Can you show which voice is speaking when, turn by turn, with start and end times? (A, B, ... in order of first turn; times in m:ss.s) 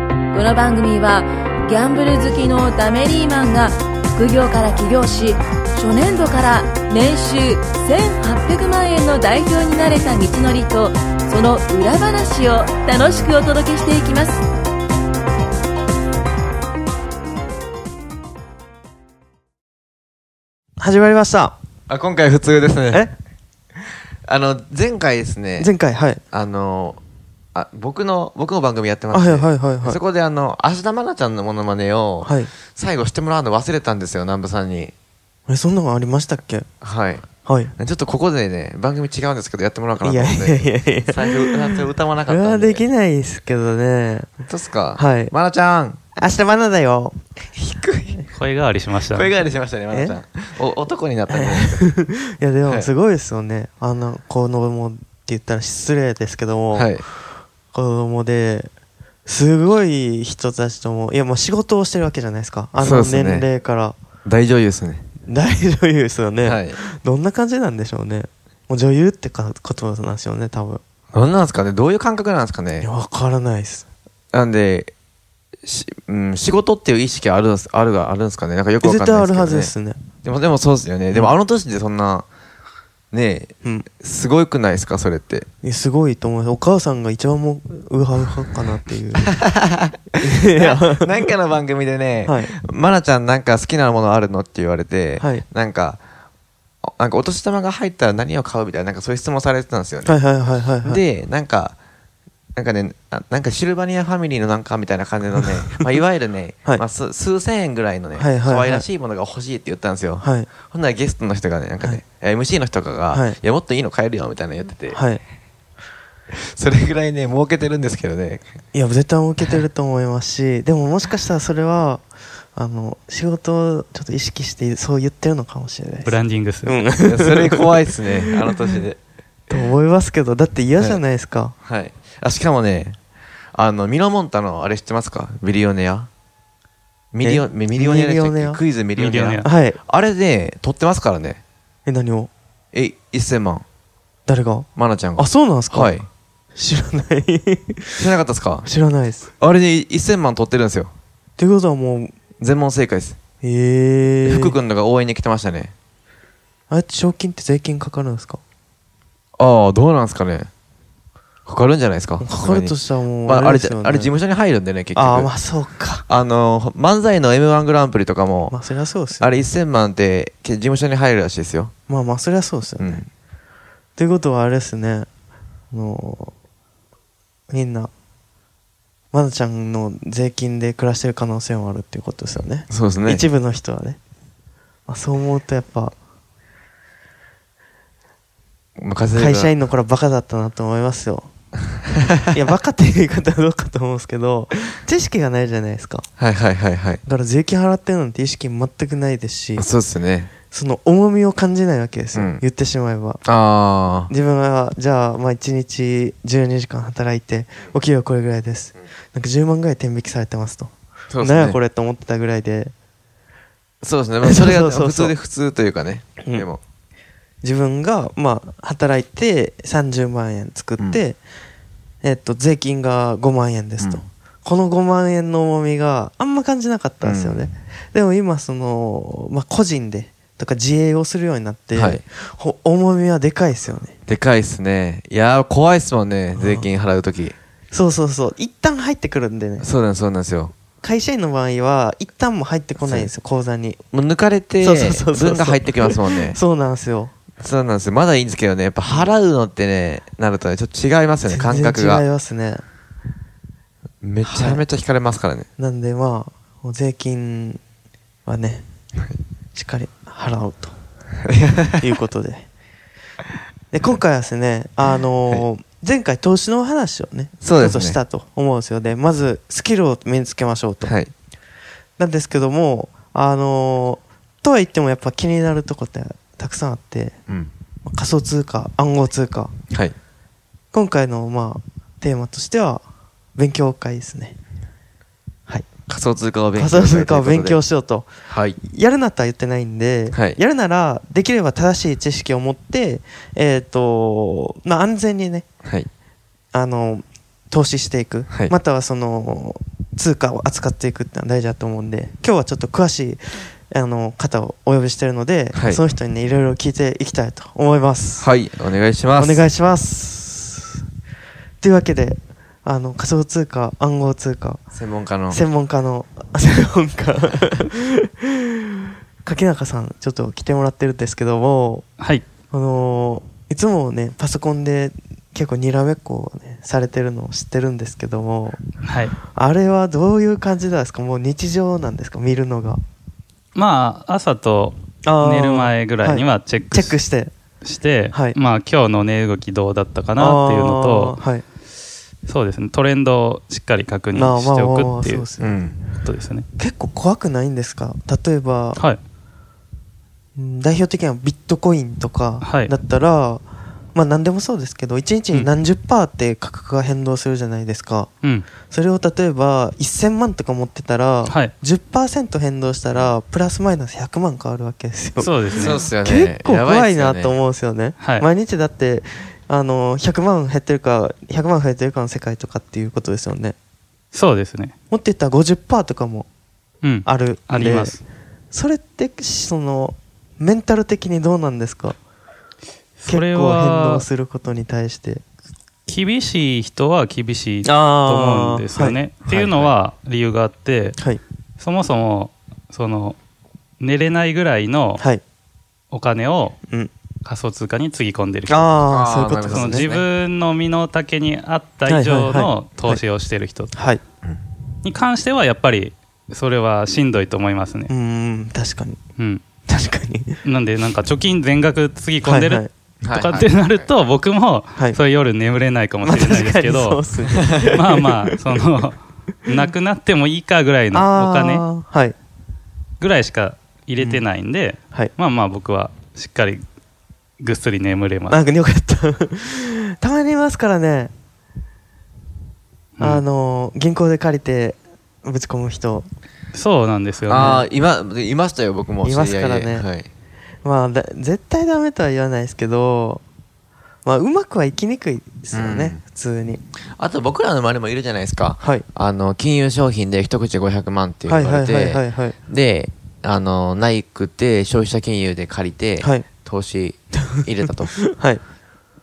0:00.3-0:14.4 A
0:20.8-0:21.6 B
0:21.9-0:23.1 C
0:24.3-0:25.7 C
0:25.6-0:26.2 B
0:26.3-0:27.0 C
0:27.5-0:34.9 C
0:29.1-0:30.0 B
0:32.2-0:32.5 B
0:35.5-0:36.7 B
0:36.8-0:37.2 C
0:37.4-0:37.7 B
0:37.8-0:42.8 C
0:40.0-0:44.3 B
0:44.4-0:46.0 C
0:45.0-0:45.3 B
0:46.2-0:47.2 B
0:47.6-0:48.2 C
0:48.3-0:49.3 D
0:49.1-0:51.9 C
0:49.9-0:50.2 B
0:51.3-0:56.9 B
0:52.6-0:52.9 C
0:56.7-0:57.0 C
0:57.7-0:58.7 B
0:59.2-1:04.0 B
1:02.8-1:03.5 C
1:04.2-1:05.0 C
1:05.3-1:10.8 B
1:06.4-1:06.8 C
1:11.1-1:12.9 C
1:12.8-1:13.9 B
1:14.3-1:14.9 C
1:15.6-1:19.7 C
1:18.8-1:20.0 B
1:20.2-1:22.3 C
1:23.1-1:25.5 C
1:25.6-1:29.4 B
1:29.2-1:36.0 C
1:30.1-1:31.1 B
1:32.2-1:32.5 B
1:35.2-1:35.4 B
1:36.8-1:40.2 C
1:40.0-1:41.0 B
1:40.8-1:41.8 C
1:42.6-1:55.0 C
1:48.2-1:48.8 B
1:50.2-1:50.5 B
1:53.1-1:53.4 B
1:54.9-1:55.2 B
1:56.3-1:58.4 C
1:58.7-2:02.0 B
2:02.5-2:08.8 B
2:06.0-2:06.8 D
2:07.0-2:09.0 C
2:09.5-2:11.5 B
2:11.6-2:13.0 C
2:13.5-2:16.1 C
2:17.1-2:21.4 C
2:17.2-2:18.6 B
2:19.0-2:19.5 D
2:19.4-2:19.8 B
2:21.8-2:22.3 B
2:22.7-2:23.6 C
2:24.3-2:28.1 B
2:24.8-2:26.1 C
2:28.0-2:28.7 C
2:28.6-2:29.3 B
2:29.4-2:30.9 C
2:31.4-2:32.1 B
2:32.4-2:33.2 C
2:33.4-2:34.6 B
2:34.2-2:35.7 C
2:36.7-2:38.4 B
2:39.4-2:40.5 C
2:41.5-2:45.3 C
2:42.2-2:44.1 B
2:44.9-2:46.0 B
2:46.1-2:48.5 C
2:48.5-2:49.3 B
2:49.2-2:51.7 C
2:51.9-2:53.1 B
2:52.8-2:53.1 C
2:54.0-2:55.1 B
2:55.7-2:56.3 B
2:57.5-2:57.9 B
2:59.1-3:04.0 B
3:02.7-3:03.3 C
3:04.9-3:05.9 B
3:08.8-3:09.5 C
3:09.1-3:11.3 B
3:12.3-3:16.1 B
3:16.2-3:17.0 C
3:17.0-3:19.7 B
3:19.6-3:20.3 C
3:20.4-3:23.2 B
3:22.1-3:22.4 C
3:23.2-3:24.1 C
3:24.1-3:32.7 B
3:31.1-3:31.6 C
3:33.8-3:36.6 C
3:34.2-3:35.2 B
3:36.2-3:36.5 B
3:37.4-3:41.2 B
3:42.0-3:53.9 B
3:47.0-3:47.5 C
3:51.7-3:52.0 C
3:54.1-3:57.3 C
3:56.4-3:56.7 B
3:57.7-3:59.7 B
3:59.6-4:00.5 C
4:00.8-4:03.8 B
4:02.8-4:03.1 C
4:03.9-4:06.4 C
4:04.6-4:07.1 B
4:07.4-4:12.0 C
4:11.3-4:12.6 B
4:14.0-4:15.5 C
4:14.2-4:14.6 B
4:15.6-4:17.6 B
4:18.3-4:18.7 B
4:19.5-4:20.8 B
4:21.2-4:21.9 C
4:21.8-4:22.5 B
4:23.7-4:31.0 B
4:27.4-4:28.0 C
4:30.8-4:31.1 C
4:32.0-4:37.2 B
4:37.8-4:39.5 B
4:40.7-4:42.8 B
4:43.4-4:44.4 B
4:45.9-4:47.6 C
4:46.6-4:55.5 B
4:48.3-4:48.6 C
4:50.1-4:50.4 C
4:55.6-4:55.9 C
4:56.5-5:08.3 B
5:05.5-5:05.8 C
5:08.2-5:09.4 C
5:09.2-5:10.8 B
5:11.6-5:14.6 B
5:14.7-5:15.4 C
5:15.3-5:18.6 B
5:19.2-5:21.9 B
5:22.0-5:22.3 D
5:22.5-5:28.6 B
5:28.8-5:29.2 D
5:29.3-5:32.8 B
5:33.6-5:37.0 D
5:35.0-5:37.3 B
5:37.6-5:41.2 D
5:38.1-5:38.4 B
5:40.2-5:41.4 B
5:42.3-5:45.3 D
5:44.1-5:45.7 B
5:45.4-5:45.8 C
5:46.0-5:46.5 D
5:46.6-5:48.8 B
5:50.4-5:58.1 B
5:52.4-5:52.7 D
5:58.7-6:13.6 B
6:01.3-6:01.5 D
6:05.2-6:05.8 D
6:05.5-6:07.4 C
6:08.0-6:08.3 D
6:14.1-6:14.7 D
6:14.9-6:16.3 B
6:16.8-6:18.0 D
6:17.0-6:18.0 B
6:18.5-6:22.0 B
6:23.0-6:24.0 D
6:23.1-6:25.2 B
6:25.9-6:31.0 D
6:27.6-6:29.0 B
6:29.3-6:29.7 C
6:31.6-6:33.2 D
6:33.8-6:35.0 D
6:35.0-6:35.2 B
6:35.9-6:36.6 D
6:37.2-6:38.8 D
6:38.5-6:39.9 B
6:38.9-6:40.0 C
6:39.5-6:43.7 D
6:41.9-6:43.0 B
6:43.7-6:44.0 B
6:44.8-6:47.9 D
6:47.9-6:49.0 B
6:49.2-6:49.4 D
6:49.7-6:50.4 B
6:50.4-7:01.7 D
6:52.2-6:52.7 B
6:53.0-6:53.9 C
6:56.0-6:58.4 B
6:57.3-6:57.8 C
7:00.9-7:02.2 B
7:03.0-7:06.6 D
7:04.0-7:04.2 B
7:07.4-7:08.4 D
7:08.3-7:11.1 B
7:13.0-7:13.2 D
7:13.0-7:16.1 B
7:16.5-7:17.6 D
7:17.3-7:20.1 C
7:17.4-7:17.6 B
7:19.0-7:19.9 B
7:20.6-7:23.2 B
7:24.0-7:26.6 B
7:25.5-7:26.0 C
7:27.0-7:38.0 C
7:28.6-7:28.8 B
7:31.3-7:32.4 B
7:36.0-7:36.3 B
7:38.0-7:38.4 B